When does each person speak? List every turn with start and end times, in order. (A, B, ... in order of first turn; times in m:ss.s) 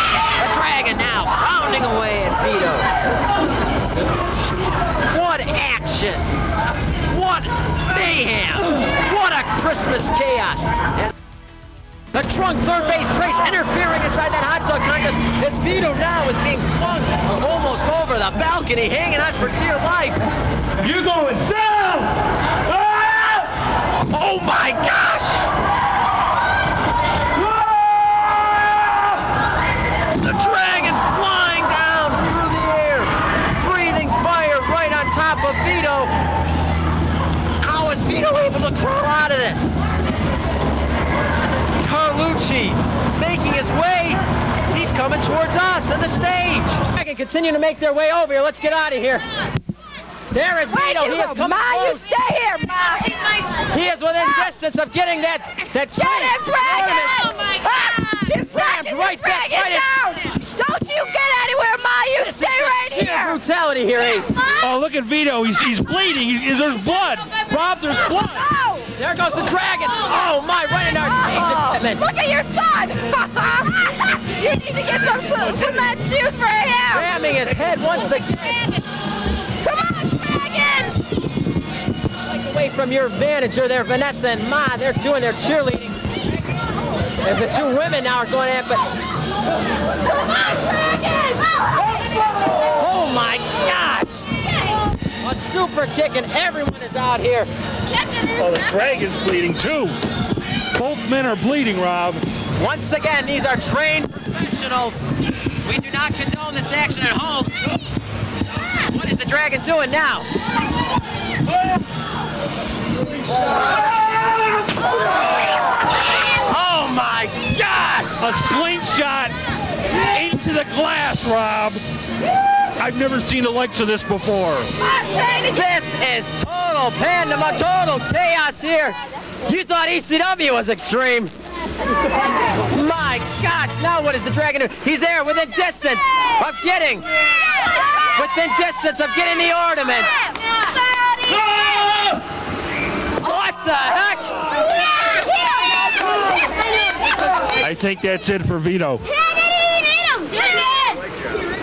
0:00.4-0:02.9 A
0:05.0-0:06.3 A
0:07.1-0:11.1 A
0:12.1-0:20.2 A
0:20.9-0:21.8 B
0:24.1-0:25.4 A
0:30.2-0:36.1 A
0:37.6-0:39.8 A
0:41.8-0:44.2 A
0:44.7-0:49.3 A
0:50.3-0:52.1 A
0:50.6-0:53.6 C
0:53.7-0:57.2 A
0:56.0-1:03.4 C
0:58.5-1:00.4 A
1:02.2-1:04.4 A
1:04.6-1:08.5 B
1:08.1-1:08.9 C
1:08.9-1:12.0 A
1:11.2-1:17.3 C
1:16.9-1:18.6 A
1:19.6-1:21.0 C
1:22.2-1:26.0 A
1:27.2-1:28.9 A
1:30.5-1:31.5 C
1:32.7-1:34.3 A
1:35.2-1:37.5 A
1:38.3-1:40.0 B
1:40.7-1:42.2 B
1:42.6-1:45.0 A
1:45.6-1:47.7 A
1:48.8-1:50.3 A
1:56.4-1:58.3 A
1:58.2-1:59.3 B
2:00.0-2:01.8 B
2:02.8-2:04.7 B
2:05.0-2:11.3 A
2:12.7-2:17.1 A
2:18.0-2:20.2 A
2:23.2-2:24.5 A
2:27.5-2:29.1 B
2:30.1-2:30.7 C